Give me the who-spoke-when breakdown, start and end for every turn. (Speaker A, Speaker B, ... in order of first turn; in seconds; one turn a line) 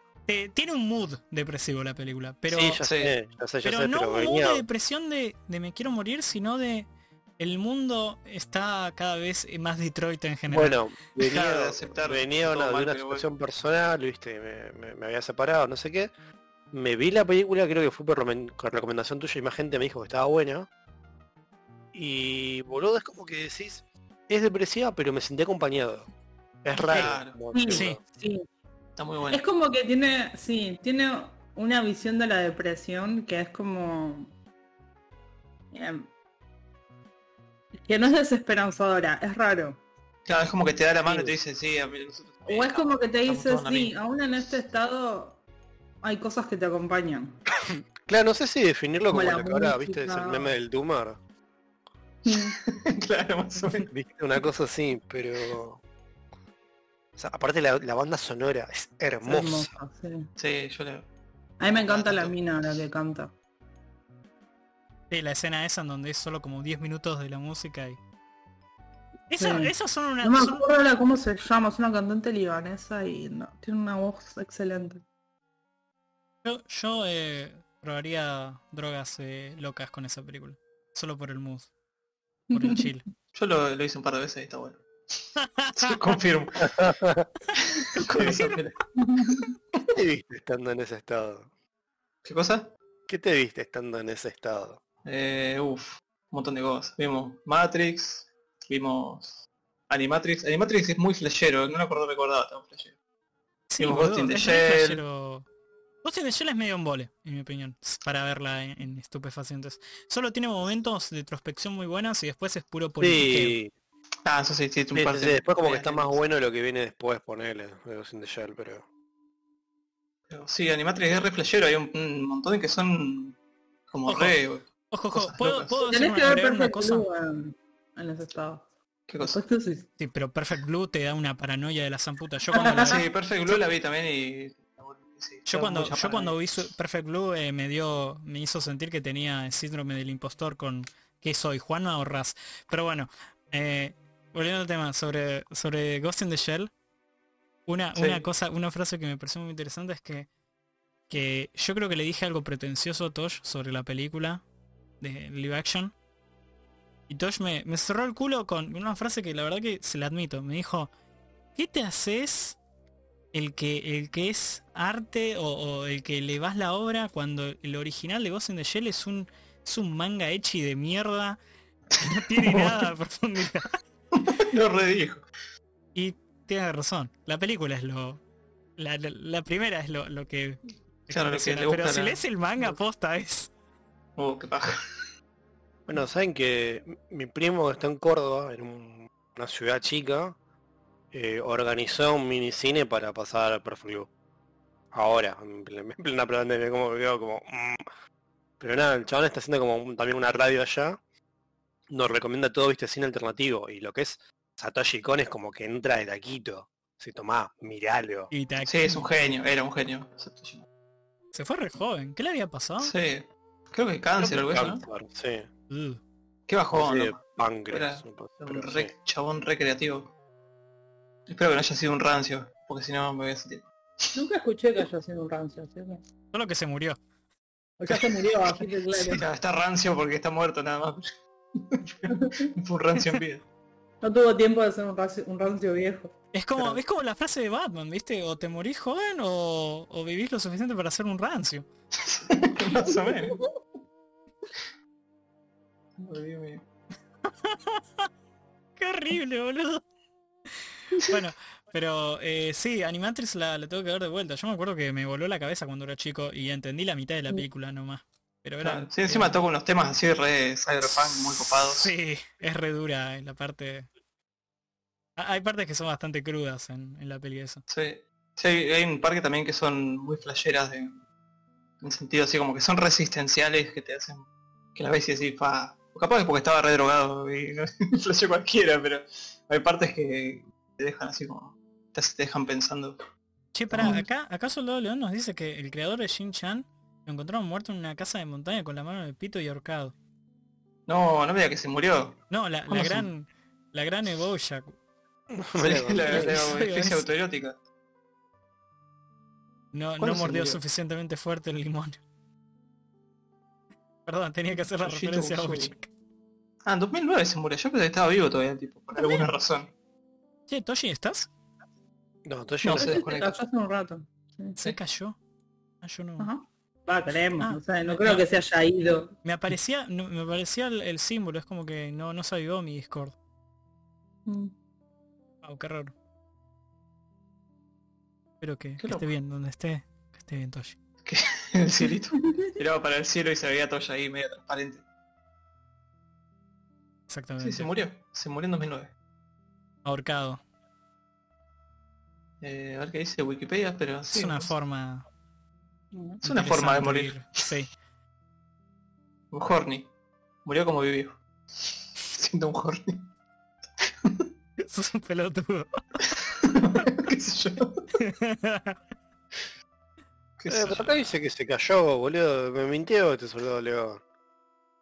Speaker A: 0.3-2.8
Speaker B: 2.5-4.7
Speaker C: 2.7-3.1
Speaker A: 3.6-10.8
Speaker B: 10.5-16.1
Speaker C: 11.2-13.3
Speaker B: 16.7-20.7
Speaker B: 21.9-26.1
Speaker B: 26.6-28.0
Speaker C: 26.8-27.4
Speaker D: 27.5-28.4
Speaker A: 27.6-28.0
Speaker C: 29.0-29.4
Speaker D: 29.3-34.3
Speaker D: 35.7-36.1
Speaker D: 37.8-39.8
Speaker C: 40.3-43.9
Speaker B: 41.1-41.4
Speaker D: 42.5-45.4
Speaker D: 46.0-47.4
Speaker B: 47.7-51.2
Speaker D: 49.1-50.5
Speaker D: 52.3-52.6
Speaker C: 52.3-53.9
Speaker B: 53.9-55.8
Speaker B: 57.2-59.7
Speaker D: 59.2-60.3
Speaker C: 60.4-61.1
Speaker D: 61.6-63.3
Speaker C: 61.6-62.3
Speaker A: 65.1-68.0
Speaker A: 69.3-70.7
Speaker D: 69.4-75.0
Speaker A: 76.4-81.7
Speaker D: 82.5-82.8
Speaker A: 82.5-83.1
Speaker C: 83.3-86.8
Speaker A: 85.4-86.1
Speaker B: 86.6-87.3
Speaker C: 87.5-88.8
Speaker B: 88.2-88.5
Speaker D: 89.0-89.5
Speaker B: 89.9-91.5
Speaker C: 92.2-92.7
Speaker B: 93.1-94.8
Speaker C: 95.0-102.9
Speaker A: 103.7-105.5
Speaker C: 103.8-105.0
Speaker A: 106.0-113.6
Speaker B: 113.0-113.7
Speaker C: 114.2-116.2
Speaker B: 114.9-118.8
Speaker C: 120.3-123.4
Speaker C: 123.9-125.8
Speaker A: 124.1-124.4
Speaker A: 124.9-127.1
Speaker D: 125.9-128.6
Speaker C: 129.1-129.4
Speaker D: 129.2-129.9
Speaker A: 130.0-133.6
Speaker D: 132.5-132.9
Speaker C: 132.6-136.3
Speaker A: 135.5-146.7
Speaker A: 147.7-150.3
Speaker C: 147.9-148.2
Speaker A: 151.1-154.4
Speaker A: 155.0-155.9
Speaker A: 157.1-160.9
Speaker A: 161.6-162.6
Speaker A: 163.3-171.4
Speaker C: 171.9-172.8
Speaker A: 172.0-173.7
Speaker C: 174.1-175.2
Speaker A: 175.9-178.2
Speaker A: 178.8-183.5
Speaker C: 181.1-182.7
Speaker C: 184.2-184.8
Speaker B: 185.9-190.4
Speaker B: 191.1-194.1
Speaker B: 194.9-197.9
Speaker B: 198.6-201.0
Speaker B: 201.9-208.3
Speaker A: 208.3-209.1
Speaker C: 208.6-210.7
Speaker A: 211.3-212.9
Speaker C: 212.8-214.8
Speaker B: 214.2-215.5
Speaker A: 215.7-216.0
Speaker C: 216.5-220.1
Speaker B: 216.7-218.9
Speaker C: 221.3-224.2
Speaker D: 224.1-226.0
Speaker A: 226.3-227.0
Speaker D: 227.8-229.2
Speaker C: 229.0-233.4
Speaker D: 232.1-232.5
Speaker D: 234.0-236.1
Speaker A: 236.3-241.7
Speaker C: 242.0-243.4
Speaker D: 242.9-243.2
Speaker C: 246.0-246.6
Speaker A: 247.4-248.1
Speaker A: 248.8-249.8
Speaker A: 250.9-259.4
Speaker C: 258.6-261.9
Speaker A: 260.9-263.9
Speaker A: 265.2-267.6
Speaker C: 267.7-271.0
Speaker C: 271.8-283.0
Speaker A: 283.5-289.9
Speaker C: 283.7-284.0
Speaker C: 290.9-292.2
Speaker A: 292.3-294.8
Speaker C: 292.7-293.0
Speaker B: 295.3-296.6
Speaker C: 295.6-297.6
Speaker A: 296.1-297.1
Speaker A: 299.7-302.0
Speaker C: 300.0-300.6
Speaker A: 304.1-305.9
Speaker C: 304.8-305.7
Speaker C: 306.6-309.7
Speaker A: 310.5-311.3
Speaker B: 312.2-313.1
Speaker C: 312.6-313.3
Speaker D: 312.7-314.6
Speaker A: 314.6-315.2
Speaker A: 315.8-316.3
Speaker D: 316.2-319.1
Speaker A: 317.4-318.3
Speaker A: 319.2-323.1
Speaker D: 324.3-324.5
Speaker A: 325.4-325.9
Speaker A: 328.4-330.8
Speaker C: 328.8-329.1
Speaker C: 331.1-334.8
Speaker D: 332.2-332.5
Speaker A: 337.1-337.7
Speaker C: 337.4-338.9
Speaker A: 339.9-340.4
Speaker C: 342.4-344.5
Speaker A: 344.1-345.1
Speaker D: 345.9-346.2
Speaker C: 346.2-347.2
Speaker A: 346.2-347.7
Speaker C: 349.3-349.9
Speaker C: 350.4-353.1
Speaker C: 353.8-354.3
Speaker A: 354.7-355.8
Speaker C: 356.1-357.9
Speaker A: 358.0-358.8
Speaker C: 360.4-361.0
Speaker B: 360.5-364.0